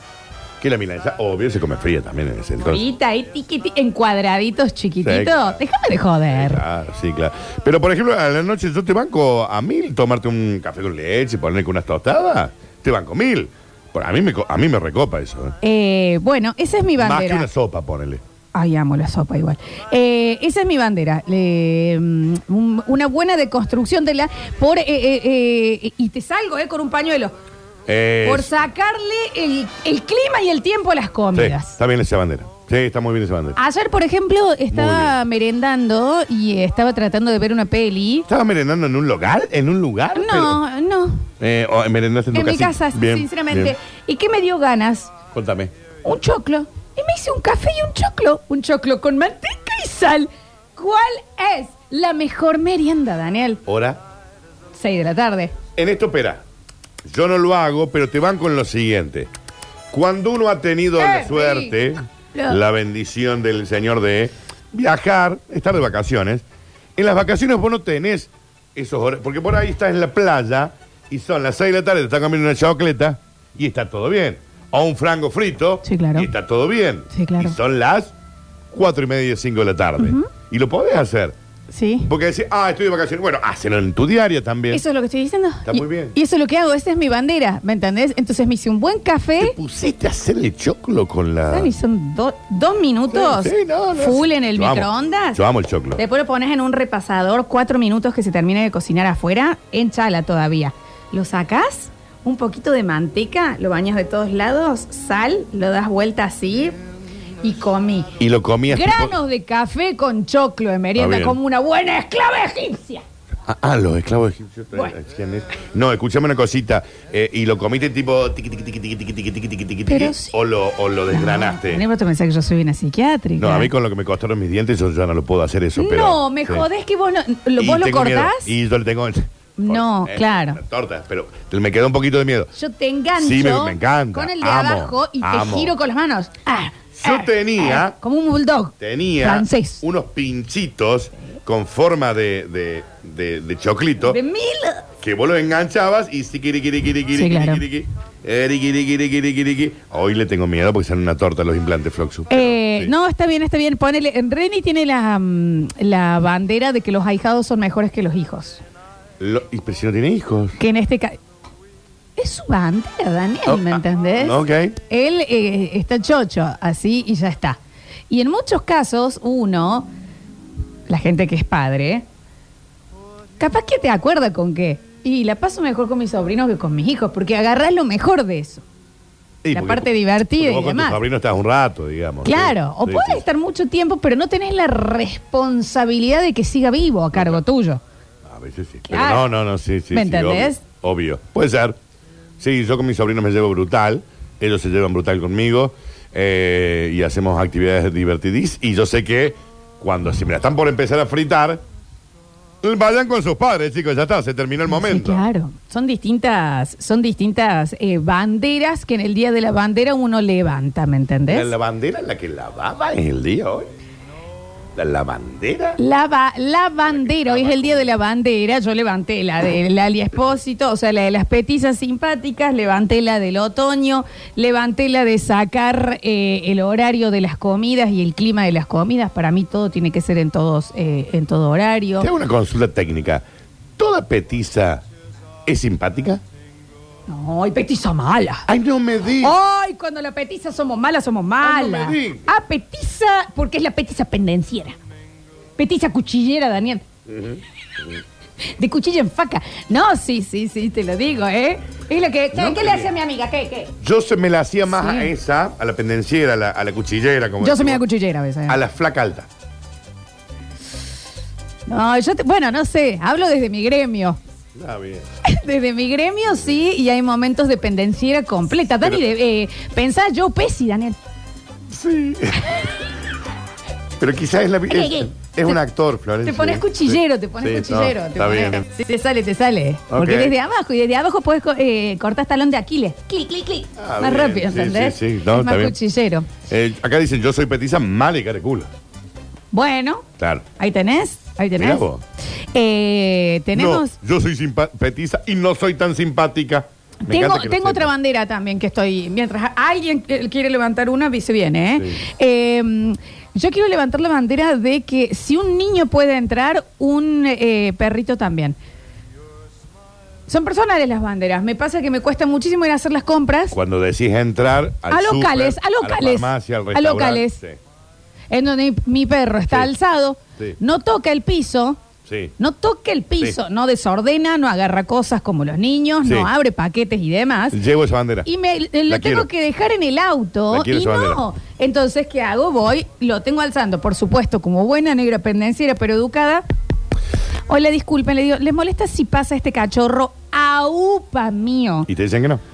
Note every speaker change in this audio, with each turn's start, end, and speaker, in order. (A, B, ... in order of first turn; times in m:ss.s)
0:00.6-0:02.8 A
0:02.6-0:06.6 B
0:05.0-0:05.6 A
0:06.3-0:15.6 A
0:15.6-0:17.5 B
0:17.0-0:18.2 A
0:18.5-0:27.3 B
0:27.9-0:28.5 A
0:28.2-0:31.8 B
0:31.3-0:33.6 A
0:33.6-0:38.3 B
0:34.7-0:35.1 A
0:38.3-0:40.6 A
0:40.1-0:41.3 B
0:41.4-0:43.7 A
0:42.3-0:45.1 B
0:45.3-0:45.7 A
0:46.0-0:53.6 B
0:53.6-0:54.0 A
0:54.7-0:55.5 B
0:55.8-0:56.4 A
0:57.0-0:59.3 A
0:59.9-1:06.4 A
1:01.0-1:01.7 B
1:02.3-1:02.6 B
1:07.0-1:18.1 A
1:15.8-1:16.3 B
1:17.1-1:17.6 B
1:18.7-1:21.3 A
1:20.0-1:20.3 B
1:21.7-1:22.1 B
1:22.1-1:24.8 A
1:24.7-1:29.6 B
1:25.6-1:26.1 A
1:29.4-1:31.7 A
1:31.5-1:35.4 B
1:33.1-1:36.0 A
1:36.0-1:46.8 B
1:47.4-1:48.1 B
1:48.2-1:49.1 A
1:48.7-1:53.0 B
1:51.0-1:51.4 A
1:53.4-2:01.8 A
1:59.9-2:00.3 B
2:01.1-2:03.7 B
2:03.4-2:06.6 A
2:05.8-2:08.5 B
2:07.6-2:12.5 A
2:09.6-2:10.6 B
2:12.5-2:19.8 B
2:13.2-2:15.7 A
2:17.0-2:18.0 A
2:18.8-2:24.2 A
2:24.0-2:24.8 B
2:25.0-2:32.9 A
2:27.1-2:27.6 B
2:32.3-2:38.6 B
2:39.2-2:40.6 A
2:40.6-2:41.2 B
2:42.2-2:49.9 B
2:43.4-2:44.7 A
2:50.9-2:52.0 B
2:53.4-2:58.6 B
2:59.4-3:03.2 A
2:59.5-3:01.0 B
3:02.2-3:07.8 B
3:07.1-3:07.4 A
3:08.2-3:11.8 A
3:08.9-3:09.3 B
3:09.9-3:10.6 B
3:12.4-3:21.6 A
3:22.6-3:25.2 A
3:24.7-3:31.5 B
3:31.3-3:33.7 A
3:34.7-3:35.8 A
3:35.8-3:52.1 B
3:36.9-3:37.9 A
3:52.0-3:53.2 A
3:53.8-3:54.8 A
3:55.4-3:56.2 A
3:57.1-3:58.5 B
3:58.5-3:59.4 A
3:59.2-4:04.8 B
4:01.4-4:02.3 A
4:05.6-4:06.8 B
4:07.1-4:08.0 A
4:08.5-4:13.7 B
4:12.3-4:12.9 A
4:13.8-4:17.8 A
4:14.7-4:15.1 B
4:17.4-4:18.6 B
4:18.5-4:19.3 A
4:21.7-4:24.2 B
4:24.5-4:25.0 A
4:25.2-4:31.0 B
4:31.7-4:32.8 A
4:34.0-4:38.6 A
4:34.7-4:35.6 B
4:36.2-4:46.3 B
4:39.9-4:40.3 A
4:43.8-4:45.8 A
4:46.5-4:48.7 A
4:49.5-4:50.0 B
4:50.2-4:50.4 A
4:50.6-4:51.8 B
4:51.6-4:52.0 A
4:52.5-4:53.9 B
4:53.5-4:57.9 A
4:57.0-5:08.6 B
5:10.3-5:13.6 B
5:13.5-5:17.6 A
5:14.9-5:17.4 B
5:18.3-5:21.8 B
5:22.0-5:22.3 A
5:22.4-5:27.6 B
5:26.0-5:26.3 A
5:27.5-5:28.3 A
5:28.2-5:36.4 B
5:28.9-5:29.3 A
5:30.5-5:31.2 A
5:37.5-5:41.9 B
5:41.9-5:42.4 A